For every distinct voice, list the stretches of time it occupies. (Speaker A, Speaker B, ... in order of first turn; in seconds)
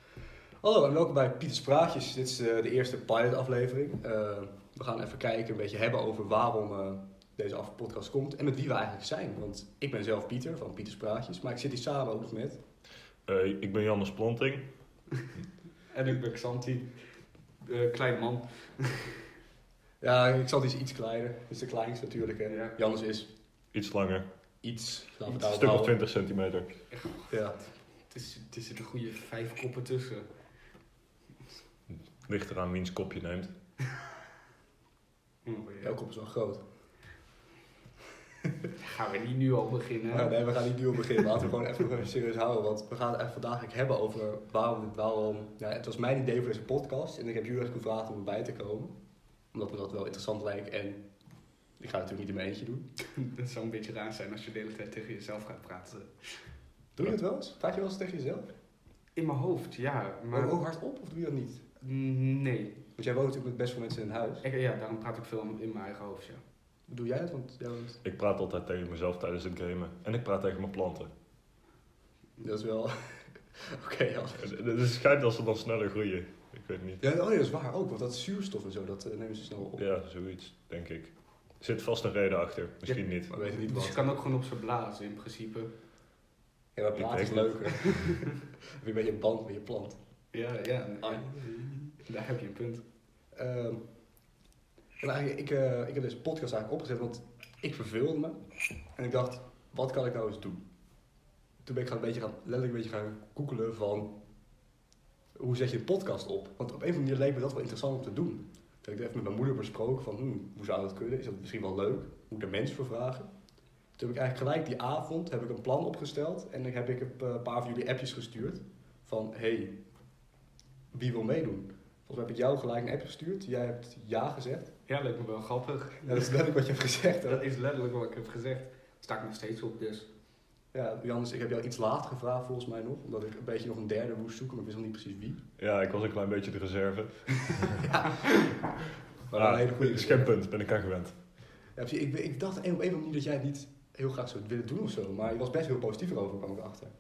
Speaker A: 0.6-12.6, 20.0-23.3, 24.6-25.9, 27.3-27.6, 35.8-36.6, 40.1-48.9, 49.5-51.0, 51.8-52.9, 57.0-58.5, 60.3-61.6, 63.0-64.5, 66.9-68.0, 72.4-74.5, 77.0-79.8, 83.3-84.0, 86.8-90.0, 91.0-91.5, 93.3-93.8, 95.0-98.4, 99.0-100.6, 101.6-104.1, 105.4-113.3, 114.0-119.8, 120.9-124.7, 126.0-127.4, 130.7-135.4, 137.8-138.4, 139.3-140.3, 141.8-146.9
Speaker B: 13.3-14.7, 23.7-24.3, 25.3-26.8, 32.2-33.5, 68.0-71.1, 74.4-77.0, 79.8-83.3, 87.0-88.0, 135.6-137.8, 139.3-141.2
Speaker C: 15.9-16.9, 17.6-19.2, 22.5-22.8, 26.9-27.3, 28.1-30.3, 35.5-36.0, 38.8-40.3, 53.0-56.4, 59.2-60.6, 61.8-62.8, 64.4-66.4, 83.6-85.7, 87.8-88.2, 90.3-92.8, 124.9-126.3, 127.3-130.1